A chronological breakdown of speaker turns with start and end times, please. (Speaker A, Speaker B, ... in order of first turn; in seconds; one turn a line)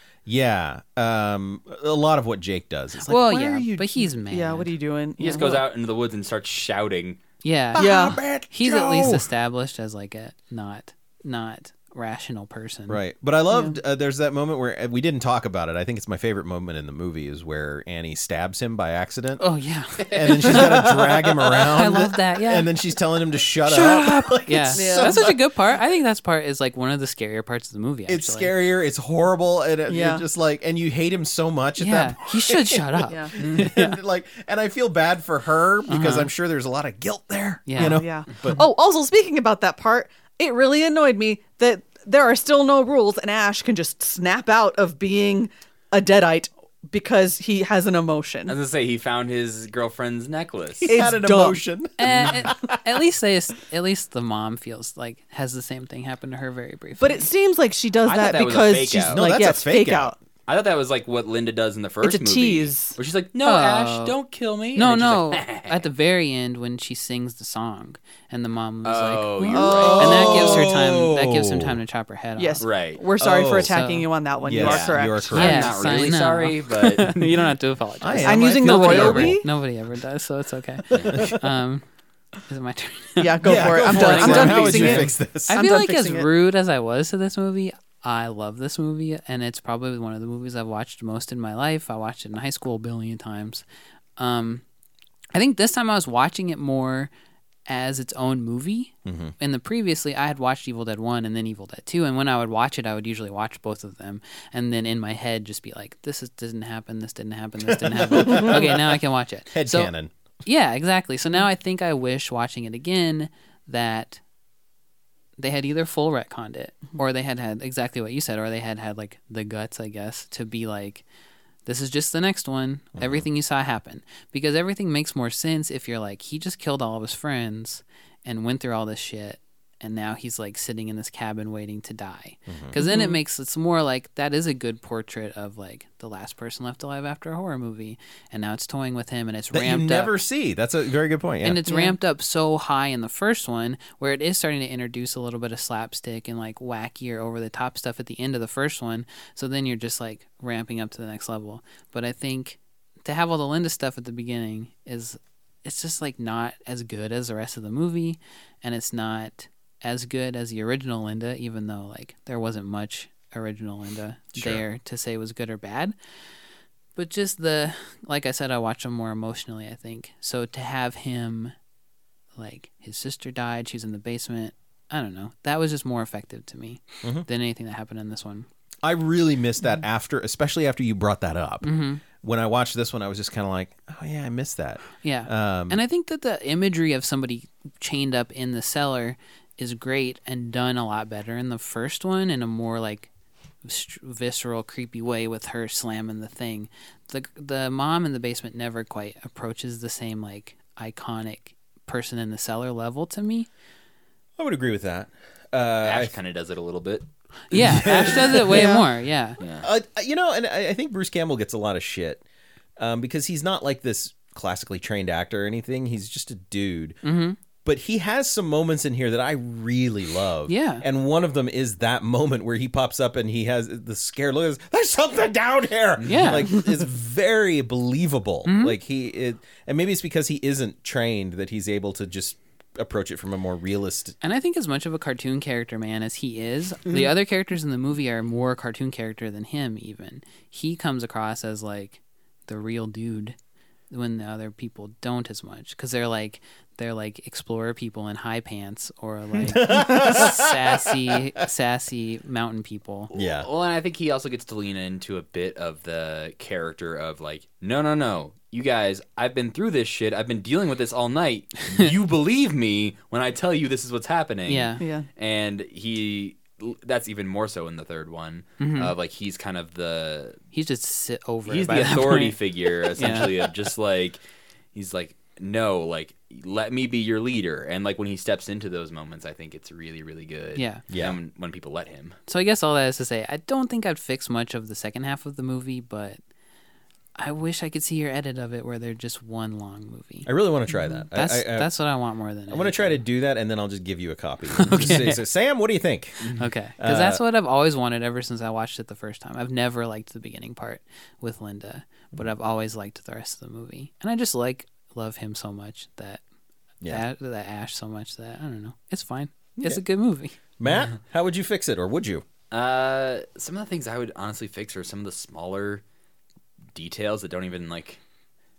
Speaker A: 0.3-4.1
Speaker B: 3.1-4.7
Speaker C: 4.3-5.6
Speaker D: 5.2-7.2
Speaker B: 7.4-7.9
Speaker C: 7.8-8.2
Speaker A: 7.8-9.3
Speaker B: 8.4-13.0
Speaker A: 12.9-19.4
Speaker C: 13.5-13.8
Speaker B: 19.4-22.7
Speaker A: 20.0-25.4
Speaker B: 23.6-28.5
Speaker C: 24.7-25.4
Speaker A: 28.1-38.6
Speaker C: 29.9-30.2
Speaker B: 31.8-34.0
Speaker C: 33.1-33.3
Speaker B: 35.9-36.3
Speaker B: 37.7-38.6
Speaker C: 37.8-48.6
Speaker D: 48.5-50.9
Speaker A: 50.9-52.8
Speaker C: 50.9-51.6
Speaker B: 52.0-57.3
Speaker C: 57.0-60.1
Speaker D: 58.0-59.2
Speaker A: 59.1-60.1
Speaker D: 60.5-65.9
Speaker C: 62.0-63.0
Speaker B: 63.4-64.2
Speaker B: 64.8-72.7
Speaker D: 68.8-70.5
Speaker C: 69.5-70.6
Speaker A: 69.8-71.8
Speaker C: 72.4-75.5
Speaker D: 72.6-73.0
Speaker A: 73.2-73.7
Speaker B: 73.6-74.1
Speaker A: 74.4-75.8
Speaker D: 74.6-77.5
Speaker B: 75.3-81.9
Speaker A: 78.0-79.4
Speaker C: 78.2-79.5
Speaker D: 80.9-81.2
Speaker A: 81.0-81.4
Speaker B: 82.5-93.6
Speaker C: 83.2-86.3
Speaker A: 83.4-85.6
Speaker D: 83.9-85.0
Speaker B: 94.2-94.6
Speaker B: 95.3-97.1
Speaker B: 97.7-109.9
Speaker A: 99.0-99.3
Speaker A: 107.7-109.0
Speaker A: 109.5-110.1
Speaker B: 110.4-114.2
Speaker B: 115.4-121.0
Speaker B: 121.7-140.1
Speaker A: 123.0-123.3
Speaker A: 132.5-132.7
Speaker C: 132.8-133.2
Speaker A: 139.5-141.6
Speaker B: 141.4-165.9
Speaker C: 141.7-142.0
Speaker A: 164.3-164.6
Speaker B: 166.9-171.5
Speaker B: 172.4-178.5
Speaker A: 178.8-185.8
Speaker B: 181.6-182.0
Speaker B: 185.0-193.1
Speaker B: 193.6-203.5
Speaker A: 204.4-206.1
Speaker D: 205.8-208.7
Speaker B: 207.5-209.4
Speaker A: 207.6-208.7
Speaker C: 208.5-208.9
Speaker D: 209.4-209.7
Speaker A: 209.6-212.2
Speaker A: 212.8-217.0
Speaker B: 217.0-217.4
Speaker A: 217.6-234.2
Speaker B: 220.5-220.8
Speaker D: 226.0-226.5
Speaker B: 226.1-226.7
Speaker B: 228.5-228.8
Speaker B: 234.2-243.4
Speaker B: 243.9-253.1
Speaker A: 249.4-251.2
Speaker D: 253.1-270.4
Speaker A: 253.1-253.5
Speaker B: 264.5-264.8
Speaker C: 264.8-265.1
Speaker B: 268.6-268.9
Speaker B: 270.5-273.3
Speaker D: 271.5-274.2
Speaker D: 274.7-282.2
Speaker B: 280.6-280.8
Speaker A: 280.9-281.2
Speaker B: 282.3-286.2
Speaker B: 287.2-293.0
Speaker A: 290.3-291.7
Speaker A: 292.5-297.2
Speaker B: 294.5-295.2
Speaker B: 296.3-306.2
Speaker B: 306.9-310.4
Speaker A: 310.6-312.2
Speaker D: 312.5-315.8
Speaker D: 316.7-318.0